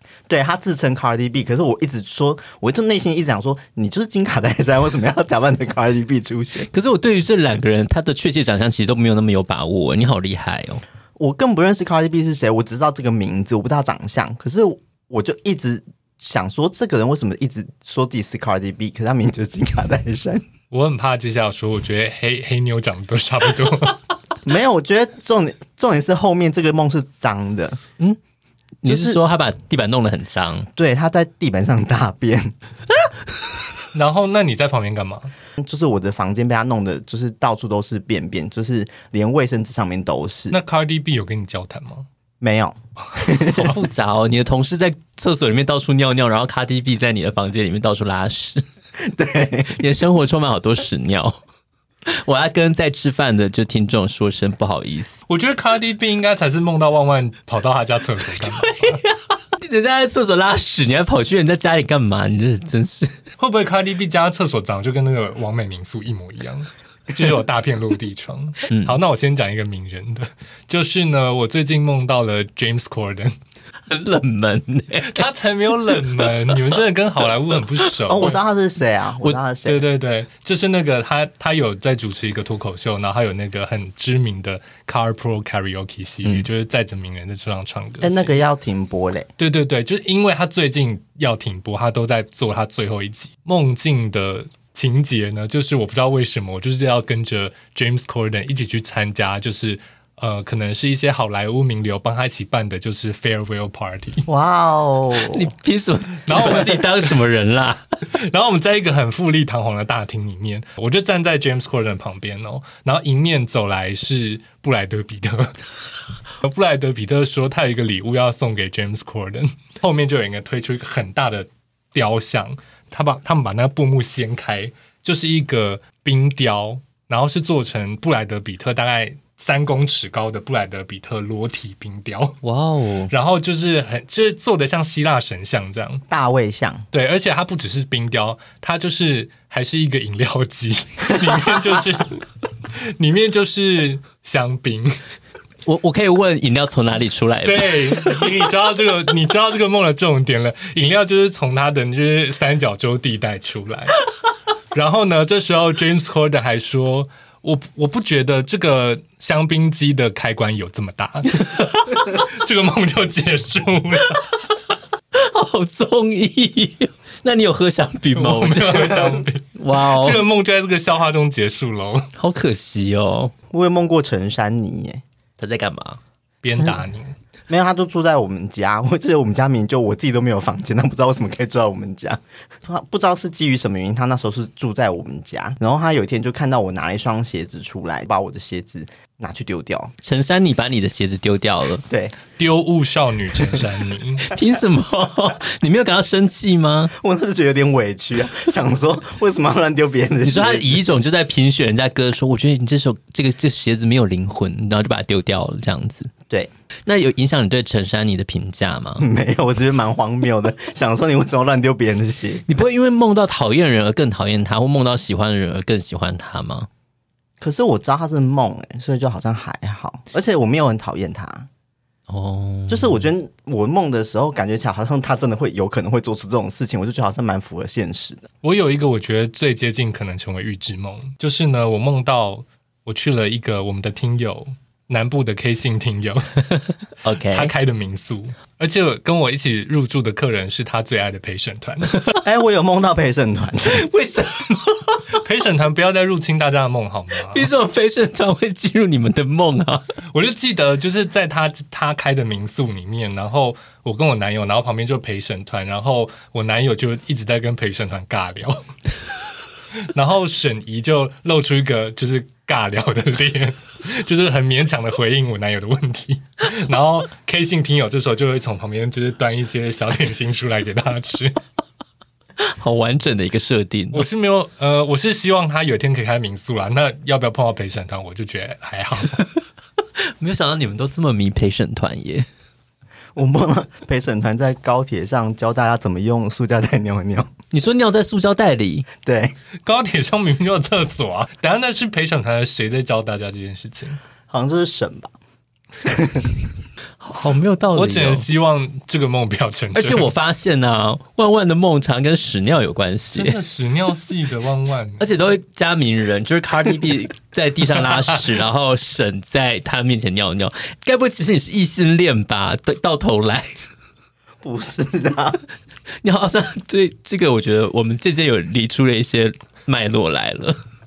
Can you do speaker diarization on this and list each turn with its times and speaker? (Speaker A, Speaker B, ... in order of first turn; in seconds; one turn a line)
Speaker A: 0.3-6.7
Speaker B: 6.7-10.8
Speaker A: 11.2-20.4
Speaker C: 20.7-24.0
Speaker A: 24.4-27.8
Speaker B: 28.8-30.7
Speaker A: 28.8-29.2
Speaker A: 30.8-32.5
Speaker C: 33.9-35.3
Speaker A: 35.6-40.6
Speaker C: 40.5-42.1
Speaker A: 42.4-43.7
Speaker B: 43.4-48.6
Speaker A: 49.0-49.8
Speaker B: 49.7-51.4
Speaker B: 52.1-55.2
Speaker C: 55.3-59.0
Speaker B: 58.6-63.2
Speaker C: 63.4-73.3
Speaker B: 68.7-69.0
Speaker B: 73.9-75.3
Speaker C: 75.0-78.4
Speaker B: 75.9-76.7
Speaker A: 78.1-79.8
Speaker C: 79.6-88.4
Speaker A: 88.0-89.3
Speaker C: 89.4-104.2
Speaker A: 104.2-105.5
Speaker B: 105.2-107.8
Speaker C: 106.3-107.1
Speaker C: 108.1-115.7
Speaker C: 116.4-132.4
Speaker B: 132.4-133.1
Speaker C: 133.1-136.0
Speaker A: 136.1-136.9
Speaker C: 136.9-142.2
Speaker C: 143.0-145.0
Speaker B: 145.7-148.1
Speaker C: 147.4-154.0
Speaker C: 154.7-164.3
Speaker B: 165.1-170.2
Speaker C: 168.1-172.1
Speaker B: 172.2-173.3
Speaker A: 173.5-175.0
Speaker B: 175.4-176.0
Speaker C: 176.4-177.1
Speaker A: 176.5-176.8
Speaker A: 177.5-189.9
Speaker B: 190.0-191.8
Speaker A: 191.9-192.1
Speaker C: 192.4-194.3
Speaker B: 194.3-196.9
Speaker A: 196.9-200.8
Speaker B: 200.2-206.1
Speaker B: 206.9-209.1
Speaker A: 209.0-212.4
Speaker B: 212.5-216.7
Speaker A: 217.4-221.5
Speaker B: 222.1-223.1
Speaker A: 222.7-228.3
Speaker C: 228.4-236.7
Speaker B: 237.0-237.5
Speaker C: 237.3-242.0
Speaker A: 242.2-243.8
Speaker B: 243.7-245.0
Speaker C: 245.1-247.5
Speaker B: 247.3-249.8
Speaker C: 250.1-258.7
Speaker C: 259.9-271.4
Speaker B: 272.4-274.1
Speaker C: 273.9-279.2
Speaker B: 280.2-282.2
Speaker A: 283.1-287.3
Speaker B: 287.5-288.9
Speaker A: 289.0-289.3
Speaker C: 289.6-294.0
Speaker A: 294.3-295.1
Speaker A: 295.8-296.3
Speaker B: 297.0-298.2
Speaker C: 297.7-300.1
Speaker B: 299.7-303.4
Speaker C: 303.1-305.0
Speaker B: 305.0-313.5
Speaker A: 314.4-315.4
Speaker B: 316.0-320.6